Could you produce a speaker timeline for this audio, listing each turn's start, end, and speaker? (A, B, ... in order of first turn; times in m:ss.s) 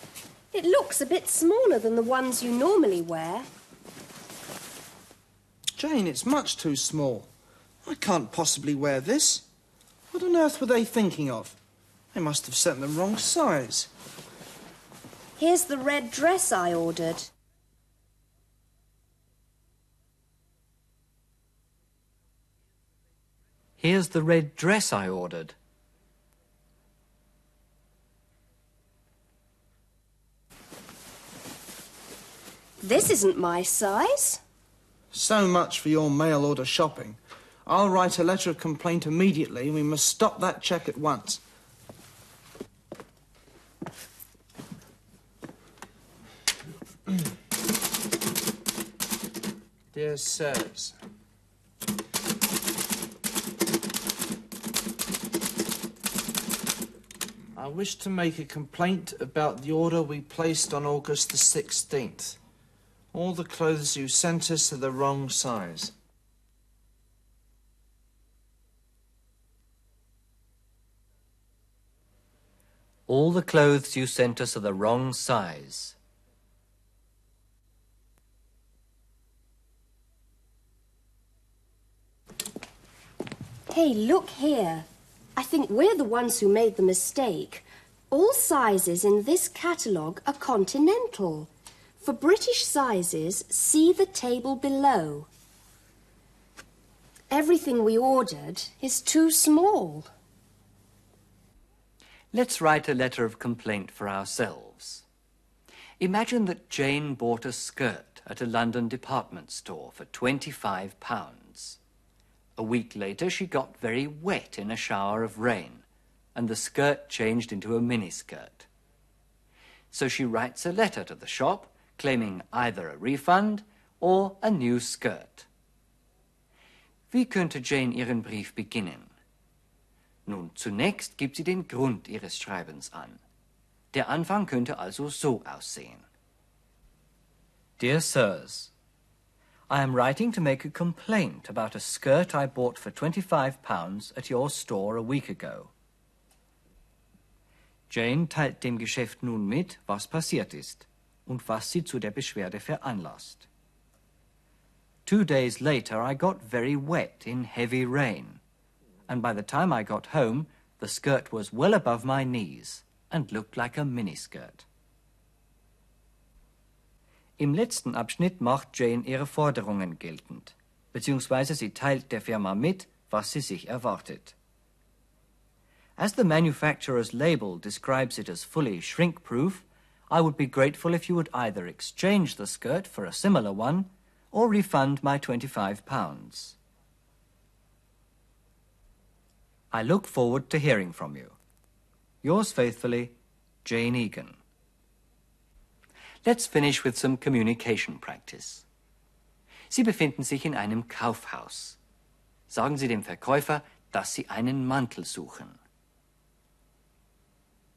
0:00.5-0:03.5 A
0:05.8-0:07.3 B
0:07.8-0:09.4 B
0:10.1-0:11.6 B
0:12.1-0:13.9 B
0:15.4-0:17.3 A
0:23.8-0:25.6 C
0:32.8-0:34.4 A
0:35.1-0:41.4 B
0:49.9-0:51.0 B
0:57.6-1:02.4 B
1:03.1-1:05.9 B
1:13.1-1:16.0 C
1:23.7-1:31.5 A
1:32.0-1:35.3 A
1:37.3-1:40.1 A
1:42.3-1:45.0 C
1:46.0-1:51.8 C
1:52.6-1:58.7 C
1:59.9-2:05.5 C
2:07.1-2:09.1 C
2:10.3-2:13.2 C
2:13.9-2:16.0 C
2:17.8-2:18.7 C
2:19.7-2:25.7 C
2:27.9-2:33.5 C
2:35.1-2:38.4 C
2:39.1-2:44.6 C
2:47.4-2:54.4 C
2:56.0-3:06.6 C
3:09.7-3:11.4 C
3:12.2-3:14.4 C
3:16.2-3:18.6 C
3:19.7-3:21.8 C
3:22.5-3:25.6 C